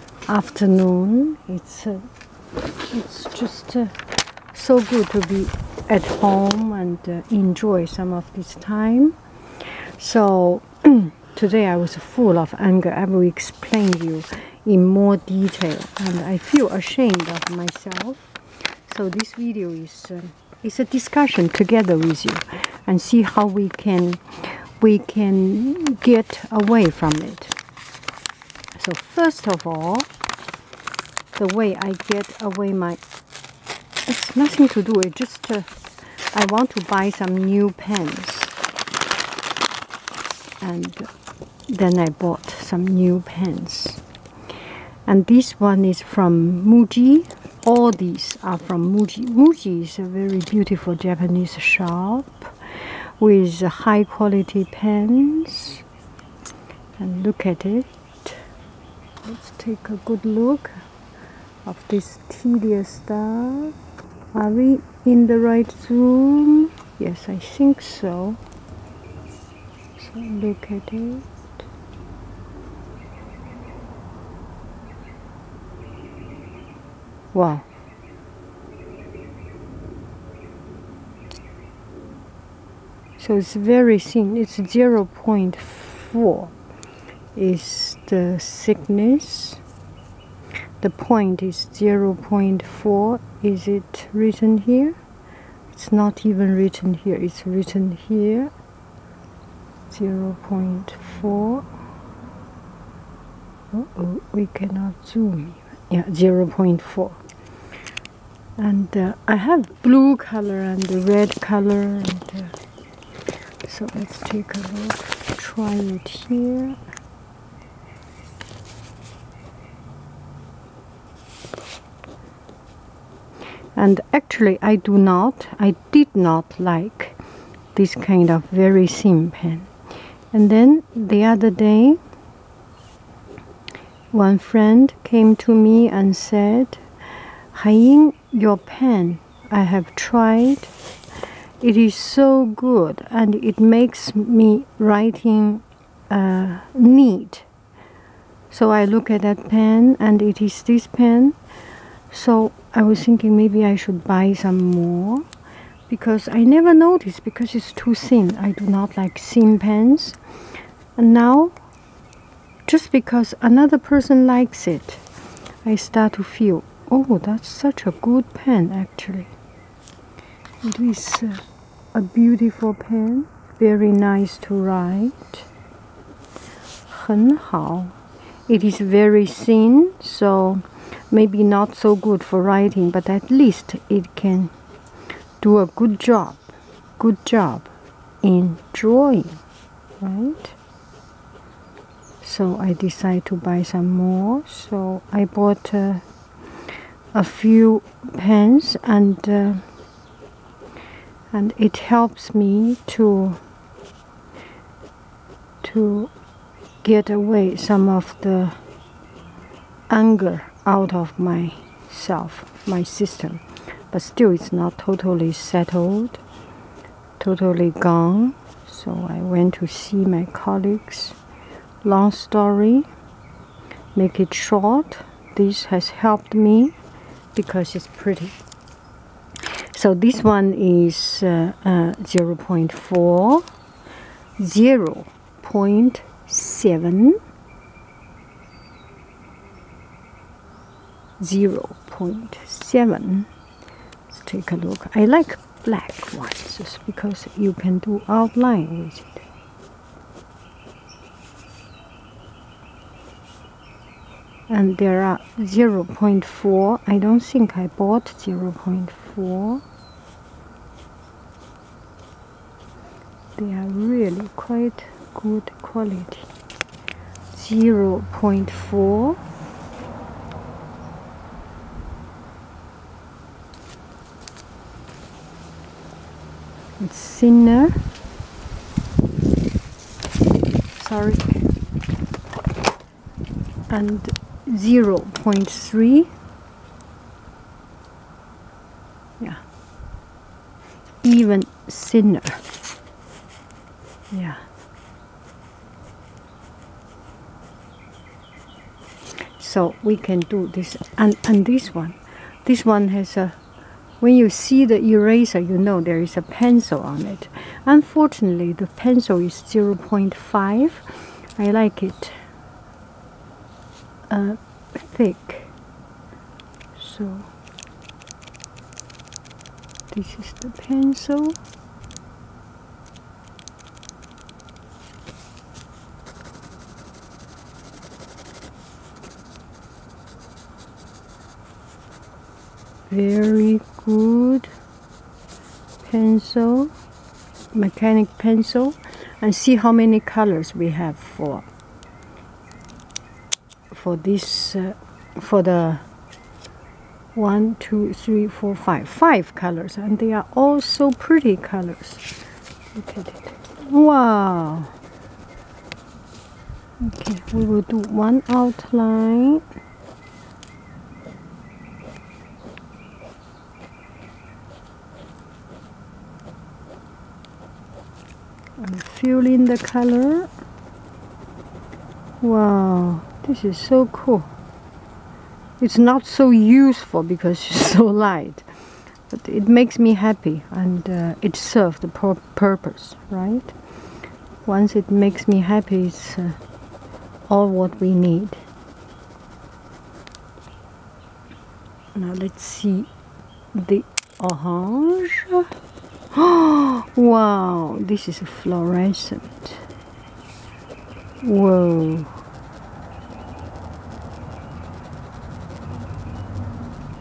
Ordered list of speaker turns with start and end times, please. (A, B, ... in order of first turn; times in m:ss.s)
0:00.3-0:02.0 A
0:02.9-0:03.9 A
0:04.5-0:09.2 A
0:10.0-0:27.6 A
0:28.8-0:30.1 A
0:31.4-0:33.0 A
0:34.1-0:35.7 A
0:36.3-0:38.6 A
0:40.6-0:41.1 A
0:41.7-0:44.0 A
0:45.1-0:52.6 A
0:53.2-0:55.8 A
0:57.0-0:58.4 A
0:59.2-1:00.7 A
1:01.6-1:03.7 A
1:04.3-1:08.4 A
1:10.0-1:11.3 A
1:17.3-1:17.7 A
1:23.2-1:26.5 A
1:27.4-1:29.6 A
1:30.8-1:35.0 A
1:35.7-1:38.5 A
1:39.9-1:41.7 A
1:43.7-1:47.2 A
1:48.6-1:52.5 A
1:53.6-1:56.8 A
2:03.8-2:07.2 A
2:07.8-2:09.7 A
2:10.3-2:12.0 A
2:14.1-2:16.8 A
2:17.5-2:20.7 A
2:21.6-2:27.5 A
2:28.5-2:31.4 A
2:32.1-2:35.2 A
2:35.9-2:40.2 A
2:41.0-2:41.6 A
2:42.7-2:45.0 A
2:45.6-2:49.3 A
2:50.6-2:51.4 A
2:51.9-2:55.5 A
2:56.9-2:58.0 A
2:58.5-3:04.5 A
3:05.4-3:06.4 A
3:07.0-3:07.7 A
3:08.2-3:09.4 A
3:10.0-3:10.6 A
3:12.2-3:16.0 A
3:17.1-3:19.6 A
3:21.3-3:23.4 A
3:25.6-3:26.1 A
3:26.8-3:28.6 A
3:29.9-3:36.2 A
3:37.2-3:41.2 A
3:41.8-3:42.9 A
3:44.0-3:46.8 A
3:47.3-3:48.4 A
3:49.7-3:53.5 A
3:54.4-3:57.2 A
4:01.2-4:03.3 A
4:04.1-4:09.3 A
4:14.5-4:19.6 A
4:23.4-4:26.3 A
4:27.3-4:29.2 A
4:36.8-4:37.8 A
4:40.8-4:41.4 A
4:43.7-4:46.1 A
4:51.0-4:52.4 A
4:54.1-4:54.4 A
4:59.4-5:03.4 A
5:04.0-5:12.2 A
5:14.1-5:15.5 A
5:16.8-5:17.3 A
5:19.9-5:21.4 A
5:32.9-5:34.5 A
5:35.8-5:36.7 A
5:37.5-5:41.4 A
5:43.7-5:45.8 A
5:47.2-5:52.0 A
5:52.8-5:54.7 A
5:56.8-5:59.4 A
6:08.6-6:10.3 A
6:12.2-6:14.3 A
6:15.6-6:18.5 A
6:19.1-6:23.5 A
6:24.4-6:26.4 A
6:27.3-6:28.4 A
6:32.0-6:32.9 A
6:33.5-6:35.5 A
6:36.1-6:39.6 A
6:41.2-6:42.1 A